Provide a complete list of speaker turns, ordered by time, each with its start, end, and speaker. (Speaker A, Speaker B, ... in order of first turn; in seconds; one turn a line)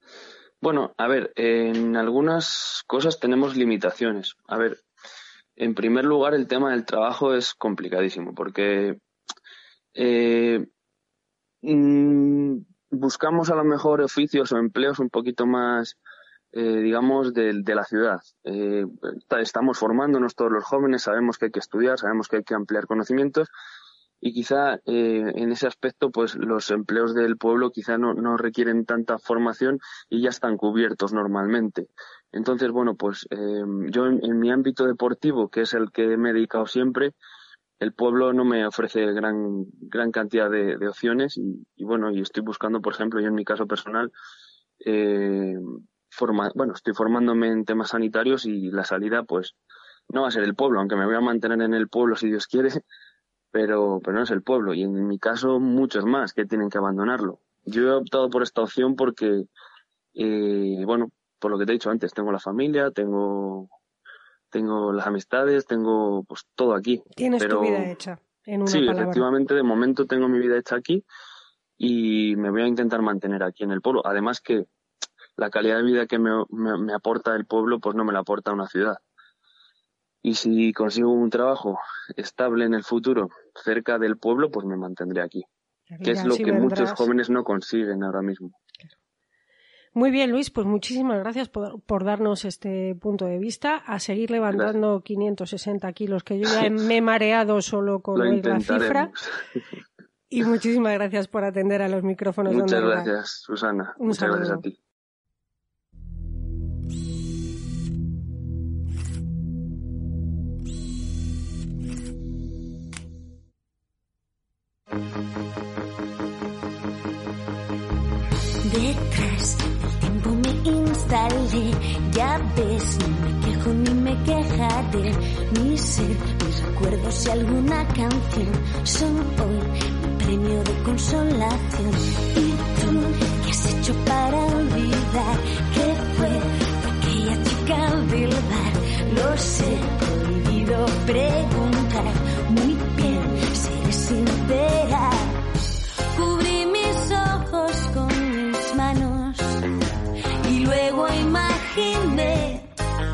Speaker A: 0.6-4.8
Speaker A: 5.6-9.0
Speaker A: 9.9-10.7
Speaker A: 11.6-16.0
Speaker A: 16.5-23.5
Speaker A: 24.2-37.1
Speaker A: 37.8-44.1
Speaker A: 44.8-49.5
Speaker A: 50.1-52.8
Speaker A: 53.5-59.5
Speaker A: 60.1-63.7
Speaker A: 64.5-67.9
Speaker B: 67.2-69.3
Speaker A: 68.7-71.0
Speaker A: 71.8-74.7
Speaker A: 75.4-79.0
Speaker A: 80.2-85.4
Speaker B: 85.9-87.0
Speaker A: 86.0-88.5
Speaker B: 89.9-99.1
Speaker A: 98.1-99.3
Speaker B: 100.3-103.1
Speaker A: 102.5-104.7
Speaker B: 104.0-104.6
Speaker C: 118.6-145.4
Speaker C: 146.1-149.6
Speaker C: 150.4-152.7